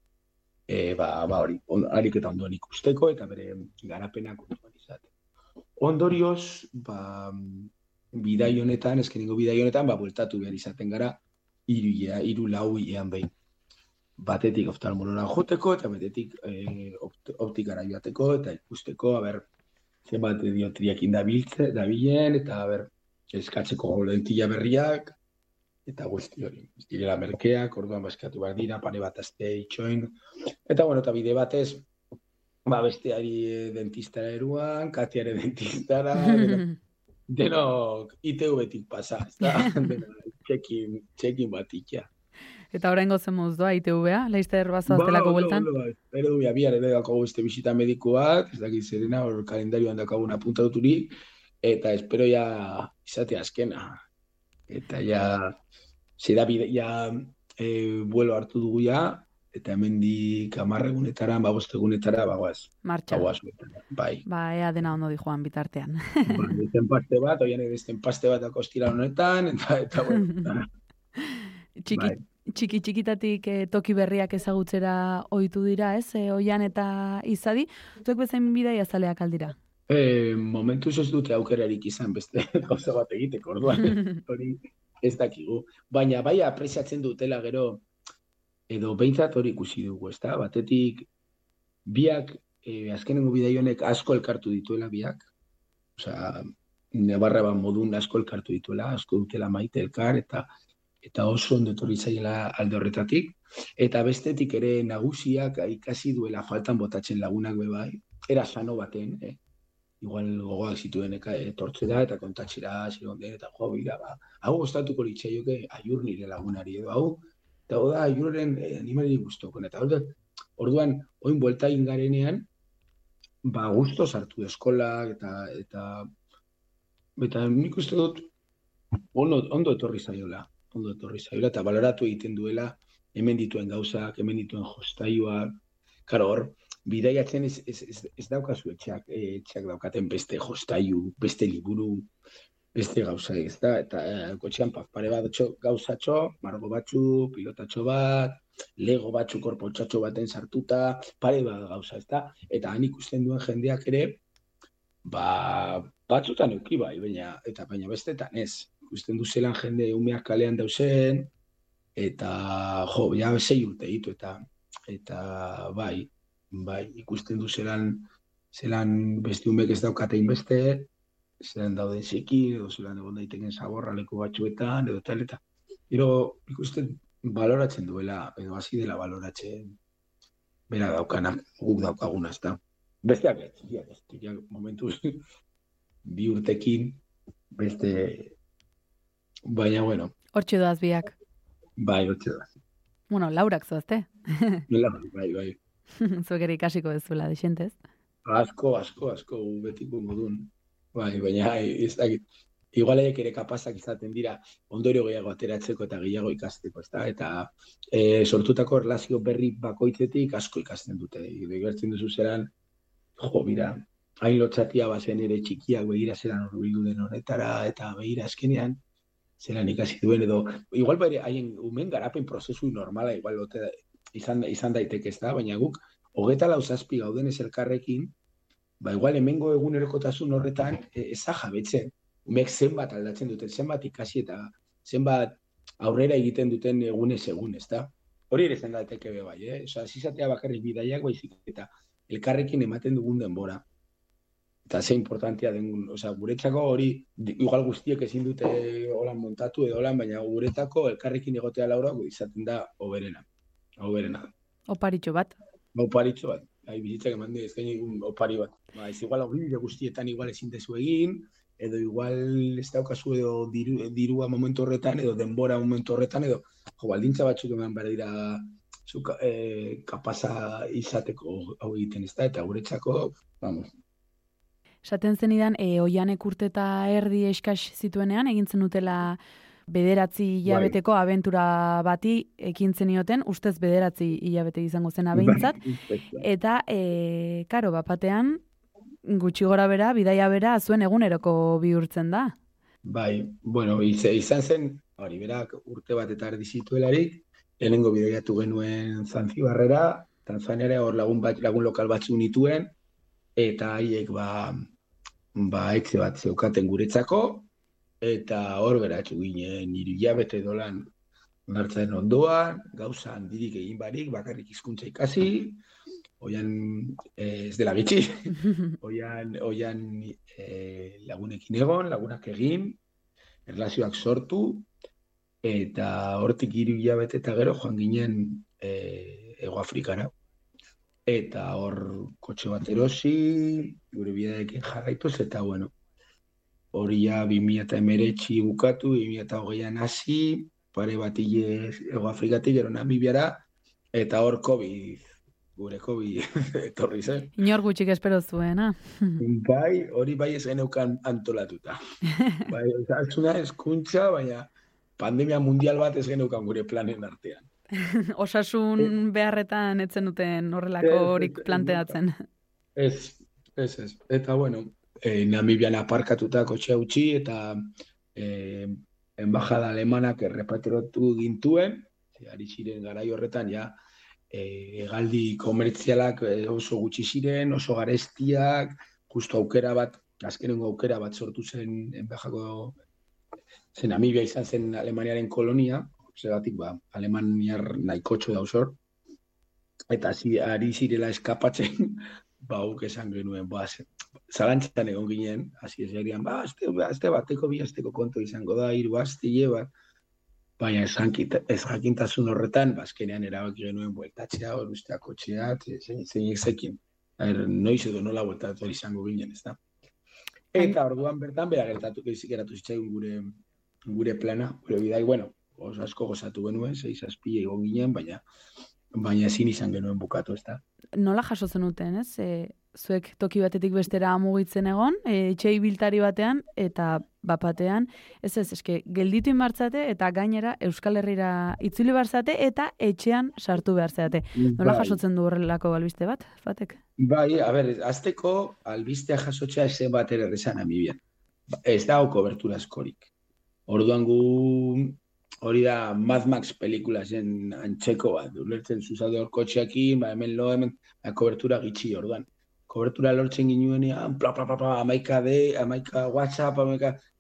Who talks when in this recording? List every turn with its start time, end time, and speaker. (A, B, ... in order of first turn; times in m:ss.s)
0:00.7-0:05.1 A
0:05.8-0:13.3 A
0:14.2-0:19.5 A
0:20.1-0:25.2 A
0:25.9-0:31.9 A
0:32.7-0:36.6 A
0:36.3-0:36.7 B
0:37.3-0:42.1 A
0:39.4-0:40.0 B
0:42.7-0:45.7 B
0:44.9-0:54.0 A
0:54.7-0:55.6 A
0:56.2-1:04.2 A
1:02.8-1:03.3 B
1:04.3-1:06.5 B
1:06.3-1:10.7 A
1:11.2-1:19.6 B
1:11.9-1:12.2 A
1:19.9-1:27.8 A
1:28.7-1:31.1 A
1:31.9-1:35.3 A
1:36.0-1:40.5 A
1:41.0-1:49.4 A
1:50.0-2:02.5 A
2:03.4-2:06.1 A
2:07.2-2:08.3 A
2:09.1-2:22.1 A
2:22.7-2:34.2 A
2:35.1-2:41.3 A
2:42.0-2:59.7 A
3:00.7-3:05.2 A
3:06.0-3:07.0 A
3:07.5-3:08.4 A
3:09.5-3:10.1 A
3:10.3-3:11.2 B
3:11.8-3:12.5 A
3:13.1-3:14.6 B
3:14.7-3:15.6 A
3:16.0-3:17.8 B
3:18.2-3:22.2 A
3:22.7-3:32.5 A
3:33.2-3:38.8 A
3:39.4-3:48.2 A
3:48.8-4:03.7 A
4:04.7-4:13.3 A
4:13.8-4:14.3 A
4:14.7-4:15.4 B
4:15.7-4:33.7 A
4:34.8-4:39.2 B
4:39.7-4:45.6 B
4:40.5-4:40.8 A
4:45.1-4:46.3 A
4:46.2-4:48.4 B
4:49.0-4:52.4 B
4:52.8-5:02.8 A
5:03.4-5:04.7 A
5:05.4-5:07.5 A
5:08.0-5:10.9 A
5:11.5-5:15.6 A
5:16.2-5:22.8 A
5:23.5-5:24.7 A
5:25.4-5:30.1 A
5:31.1-5:35.7 A
5:36.7-5:47.4 A
5:47.4-5:49.2 B
5:49.2-5:51.8 A
5:52.2-5:52.5 B
5:52.5-5:57.5 A
5:57.8-6:02.2 B
6:00.8-6:02.0 A
6:02.8-6:07.6 A
6:08.2-6:13.8 A
6:14.3-6:22.8 A
6:23.7-6:28.8 A
6:29.9-6:39.7 A
6:40.6-6:49.6 A
6:50.5-6:53.3 A
6:53.9-6:58.2 A
6:59.0-7:00.6 A
7:01.0-7:16.8 B
7:14.4-7:15.0 A
7:17.0-7:21.0 A
7:21.6-7:23.1 A
7:23.7-7:37.0 A